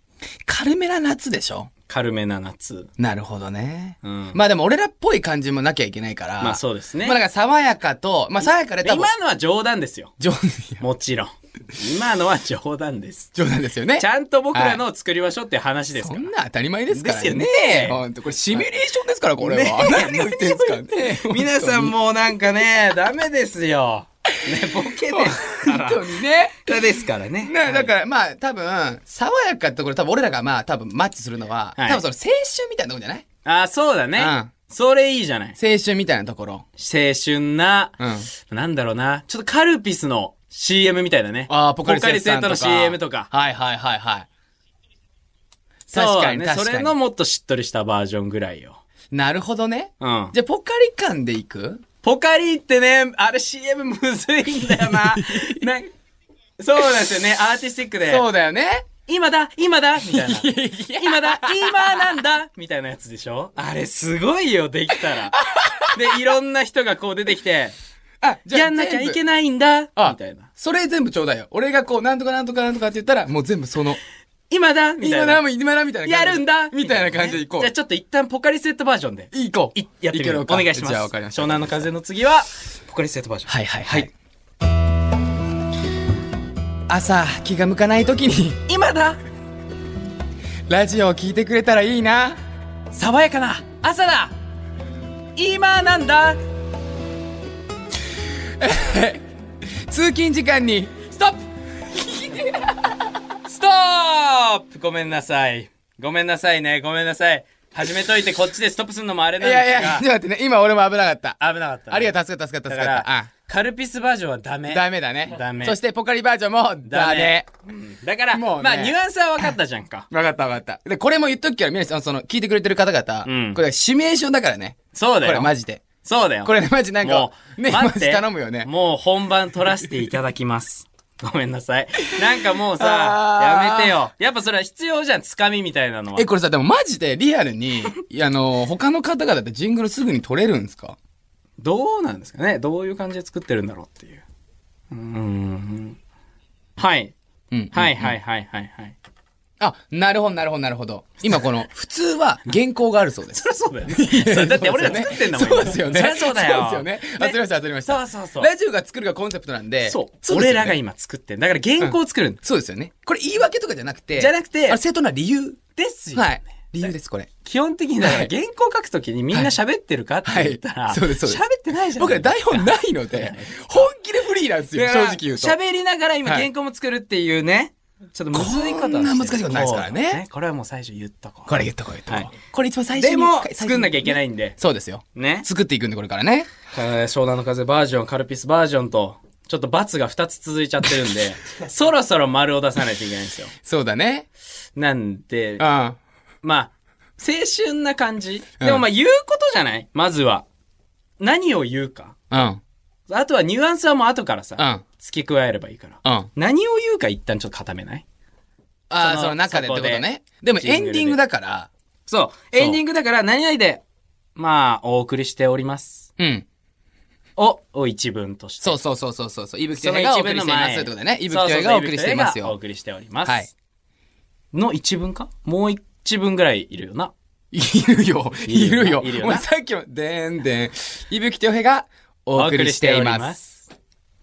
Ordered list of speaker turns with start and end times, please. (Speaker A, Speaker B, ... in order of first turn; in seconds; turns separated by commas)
Speaker A: 0.5-1.7, Speaker B: 1.9-2.9, Speaker A: 3.0-9.1, Speaker B: 4.0-4.4, Speaker B: 6.4-7.2, Speaker B: 8.4-10.2, Speaker A: 10.2-10.8, Speaker B: 10.8-13.3, Speaker A: 13.3-14.8, Speaker B: 14.0-16.3, Speaker A: 15.9-21.9, Speaker B: 16.9-18.7, Speaker B: 19.4-27.9, Speaker A: 25.1-26.8, Speaker A: 27.4-33.2, Speaker B: 31.8-32.0, Speaker B: 33.4-35.6, Speaker A: 34.1-34.5, Speaker A: 35.6-36.6, Speaker B: 36.8-43.3, Speaker A: 38.0-38.3, Speaker A: 41.5-44.3, Speaker A: 45.9-46.9, Speaker B: 45.9-48.8, Speaker A: 49.1-51.8, Speaker B: 50.0-50.3, Speaker B: 52.0-55.9, Speaker A: 54.6-55.7, Speaker B: 56.6-58.3, Speaker A: 58.0-58.9, Speaker B: 59.0-65.4, Speaker A: 60.0-62.1, Speaker A: 65.1-66.2, Speaker B: 65.9-67.8, Speaker A: 68.2-69.2, Speaker B: 68.5-70.5, Speaker A: 70.0-74.0, Speaker B: 74.5-75.4, Speaker A: 75.0-77.7, Speaker B: 76.0-84.1, Speaker A: 79.3-81.9, Speaker A: 83.5-84.1, Speaker A: 86.9-88.6, Speaker B: 88.7-89.2, Speaker A: 90.7-92.4, Speaker B: 92.9-94.3, Speaker B: 95.3-96.4, Speaker A: 98.6-99.2, Speaker A: 99.9-101.0, Speaker B: 101.1-101.4, Speaker A: 101.9-103.0, Speaker B: 103.5-110.1, Speaker A: 109.4-111.4, Speaker B: 111.4-115.8, Speaker A: 111.9-113.3, Speaker A: 114.7-117.5, Speaker B: 116.8-120.1, Speaker A: 118.3-119.5, Speaker A: 120.1-125.9, Speaker B: 123.2-123.6, Speaker B: 124.9-125.5, Speaker B: 126.0-136.3, Speaker A: 126.4-128.7, Speaker A: 132.8-133.9, Speaker A: 136.2-140.9, Speaker B: 141.6-144.2, Speaker B: 144.9-146.0, Speaker B: 146.8-147.1, Speaker A: 147.5-148.2, Speaker B: 147.7-148.9, Speaker A: 149.6-160.8, Speaker B: 153.3-158.5, Speaker B: 159.8-162.4, Speaker A: 161.8-165.6, Speaker B: 164.1-164.8, Speaker B: 165.8-166.9, Speaker A: 166.1-167.3, Speaker B: 167.4-173.9, Speaker A: 168.0-168.3, Speaker A: 170.2-171.4, Speaker A: 171.9-175.6, Speaker B: 174.7-182.3, Speaker A: 178.3-180.2, Speaker A: 181.5-186.5, Speaker B: 182.9-184.6, Speaker B: 185.1-185.5, Speaker B: 186.7-193.6, Speaker A: 193.6-194.3, Speaker B: 194.8-195.7, Speaker A: 195.6-196.0, Speaker B: 196.4-200.4, Speaker A: 198.6-198.8, Speaker B: 201.2-202.2, Speaker A: 202.3-202.6, Speaker B: 203.1-208.0, Speaker A: 204.6-204.8, Speaker A: 206.0-206.3, Speaker A: 208.9-211.7, Speaker B: 209.0-211.2, Speaker B: 212.1-213.8, Speaker B: 214.3-216.1, Speaker A: 216.2-216.4, Speaker B: 217.4-218.8, Speaker A: 218.6-222.6, Speaker B: 219.7-223.5, Speaker A: 223.2-223.5, Speaker B: 224.5-227.1, Speaker A: 227.5-233.4, Speaker B: 228.4-229.4, Speaker B: 232.3-233.6